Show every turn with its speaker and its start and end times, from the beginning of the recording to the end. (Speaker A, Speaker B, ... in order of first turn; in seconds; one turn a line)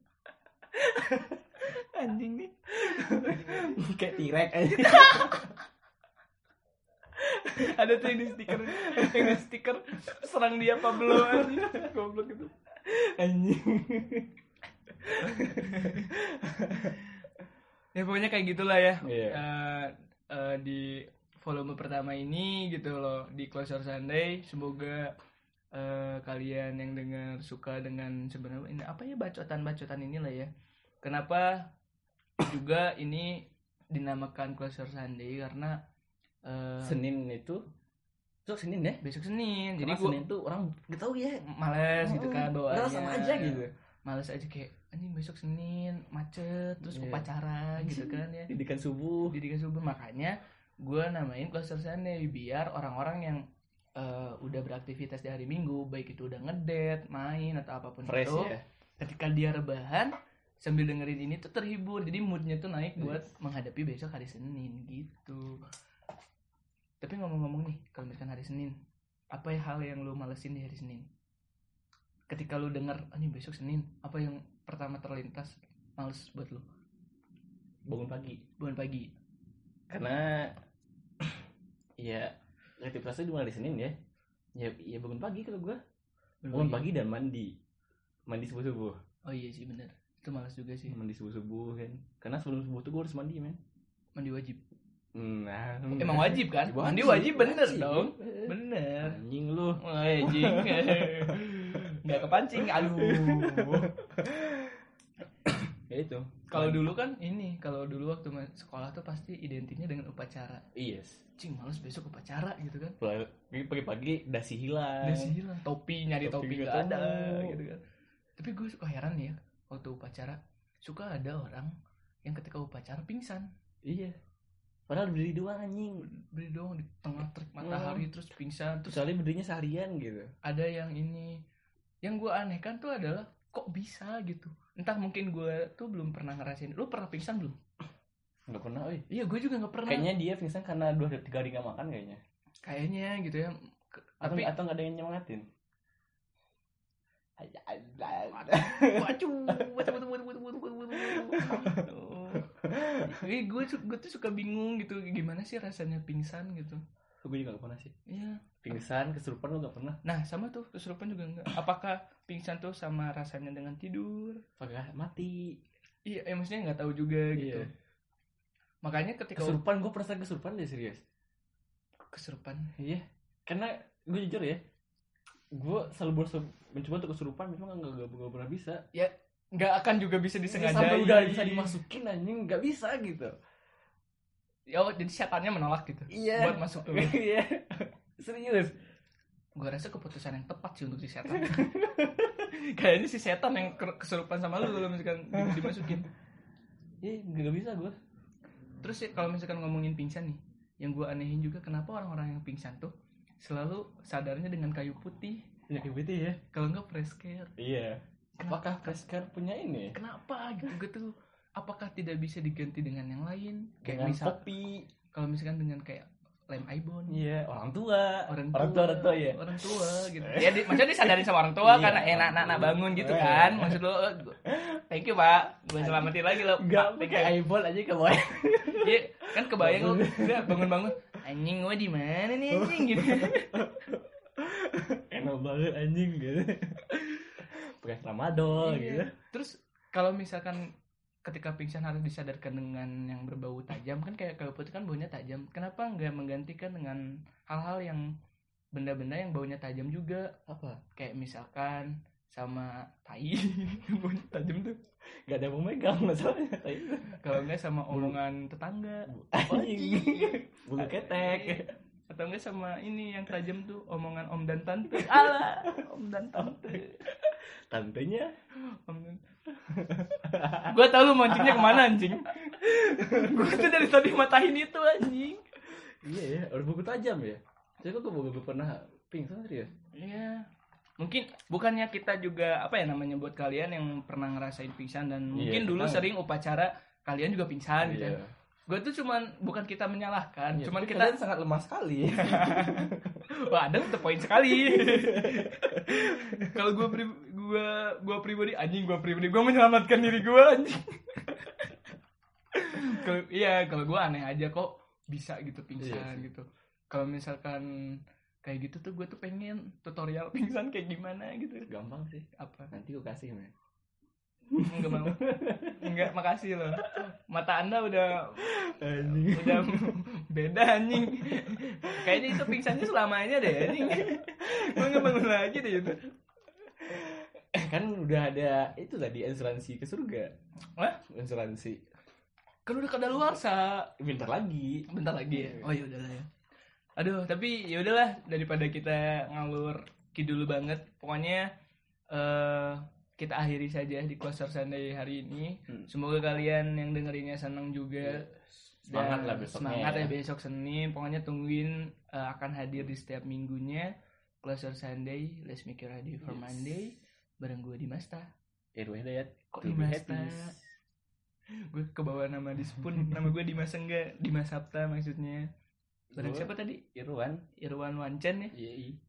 Speaker A: 0.8-1.4
Speaker B: 1.6-3.7
Speaker A: 2.8-5.5
Speaker B: 4.8-5.5
Speaker A: 7.2-9.4
Speaker B: 7.6-12.5
Speaker A: 10.8-11.9
Speaker A: 12.8-14.3
Speaker A: 15.0-17.0
Speaker B: 15.2-16.1
Speaker B: 17.9-25.1
Speaker A: 19.0-19.4
Speaker B: 25.7-30.5
Speaker B: 31.0-31.7
Speaker B: 32.4-35.8
Speaker B: 36.5-37.0
Speaker A: 36.8-37.6
Speaker A: 38.5-39.0
Speaker B: 39.0-40.2
Speaker A: 39.8-41.5
Speaker B: 41.4-48.5
Speaker A: 42.0-43.7
Speaker A: 46.8-49.4
Speaker B: 49.3-53.5
Speaker B: 54.0-65.6
Speaker A: 58.0-58.6
Speaker A: 63.0-63.2
Speaker B: 67.0-68.8
Speaker B: 69.3-71.1
Speaker B: 72.3-76.7
Speaker A: 77.8-78.4
Speaker B: 78.6-79.1
Speaker A: 79.9-80.6
Speaker A: 82.0-84.0
Speaker A: 84.5-85.8
Speaker B: 86.4-86.9
Speaker A: 86.5-87.5
Speaker A: 88.3-89.0
Speaker B: 89.3-91.0
Speaker A: 90.9-93.6
Speaker B: 94.2-94.6
Speaker A: 95.2-104.8
Speaker B: 96.0-99.2
Speaker B: 99.8-103.9
Speaker A: 105.5-106.9
Speaker B: 106.5-110.7
Speaker A: 110.8-111.2
Speaker B: 111.4-113.0
Speaker A: 113.0-115.4
Speaker B: 115.0-117.8
Speaker A: 116.2-117.6
Speaker B: 118.4-121.7
Speaker B: 122.2-123.5
Speaker A: 123.8-124.2
Speaker A: 124.9-126.1
Speaker B: 126.1-129.0
Speaker A: 127.6-128.1
Speaker A: 128.9-130.3
Speaker B: 130.4-131.4
Speaker B: 132.0-137.6
Speaker A: 138.5-139.1
Speaker B: 139.1-140.1
Speaker A: 139.8-142.2
Speaker B: 142.6-144.5
Speaker A: 144.2-145.4
Speaker A: 147.4-151.9
Speaker B: 148.7-150.0
Speaker B: 150.9-156.8
Speaker A: 152.4-153.2
Speaker A: 157.2-157.9
Speaker B: 158.1-158.5
Speaker A: 158.6-160.0
Speaker B: 160.0-164.4
Speaker A: 164.6-165.6
Speaker B: 166.1-167.7
Speaker A: 167.3-167.7
Speaker B: 168.8-169.6
Speaker A: 169.4-171.0
Speaker B: 172.1-172.7
Speaker A: 172.8-174.6
Speaker A: 175.5-178.8
Speaker B: 178.9-181.8
Speaker A: 180.5-183.4
Speaker B: 184.7-187.2
Speaker A: 186.1-188.8
Speaker B: 189.6-191.8
Speaker A: 191.3-192.4
Speaker B: 192.5-196.1
Speaker A: 195.3-196.1
Speaker A: 197.0-198.0
Speaker B: 198.8-205.5
Speaker A: 205.7-206.4
Speaker B: 206.5-207.5
Speaker A: 207.6-210.0
Speaker B: 208.4-209.0
Speaker B: 209.9-214.4
Speaker A: 213.8-214.9
Speaker B: 215.1-217.2
Speaker A: 217.1-223.8
Speaker B: 218.3-227.4
Speaker A: 224.4-224.8
Speaker A: 225.8-230.9
Speaker B: 228.7-233.6
Speaker A: 232.5-239.1
Speaker B: 238.6-240.7
Speaker B: 241.2-248.1
Speaker B: 248.7-250.4
Speaker A: 250.5-250.8
Speaker B: 250.9-254.8
Speaker A: 255.3-258.2
Speaker B: 257.2-267.0
Speaker A: 259.1-261.7
Speaker A: 264.9-265.8
Speaker A: 266.3-268.3
Speaker B: 268.9-269.2
Speaker A: 269.6-272.0
Speaker B: 270.6-275.4
Speaker A: 272.8-273.7
Speaker A: 276.0-279.7
Speaker B: 280.0-280.4
Speaker B: 281.0-291.2
Speaker A: 285.3-286.1
Speaker A: 287.8-288.3
Speaker A: 290.5-293.3
Speaker B: 292.2-301.7
Speaker A: 294.5-296.7
Speaker B: 302.6-311.7
Speaker A: 305.8-306.3
Speaker A: 311.7-313.5
Speaker B: 312.3-312.7
Speaker A: 314.5-316.0
Speaker B: 314.6-326.1
Speaker A: 318.4-320.0
Speaker A: 321.3-322.7
Speaker A: 323.5-325.2
Speaker A: 326.8-330.3
Speaker A: 331.1-331.8
Speaker B: 332.7-333.9
Speaker A: 334.0-335.7
Speaker B: 334.9-336.3
Speaker B: 337.0-341.5
Speaker B: 342.1-348.3
Speaker A: 348.0-350.1
Speaker B: 348.8-358.3
Speaker A: 356.2-356.6
Speaker A: 358.8-360.8
Speaker B: 359.5-360.6
Speaker B: 361.7-365.5
Speaker A: 362.7-363.3
Speaker A: 366.1-367.4
Speaker B: 366.1-366.8
Speaker B: 367.6-368.5
Speaker A: 368.5-369.0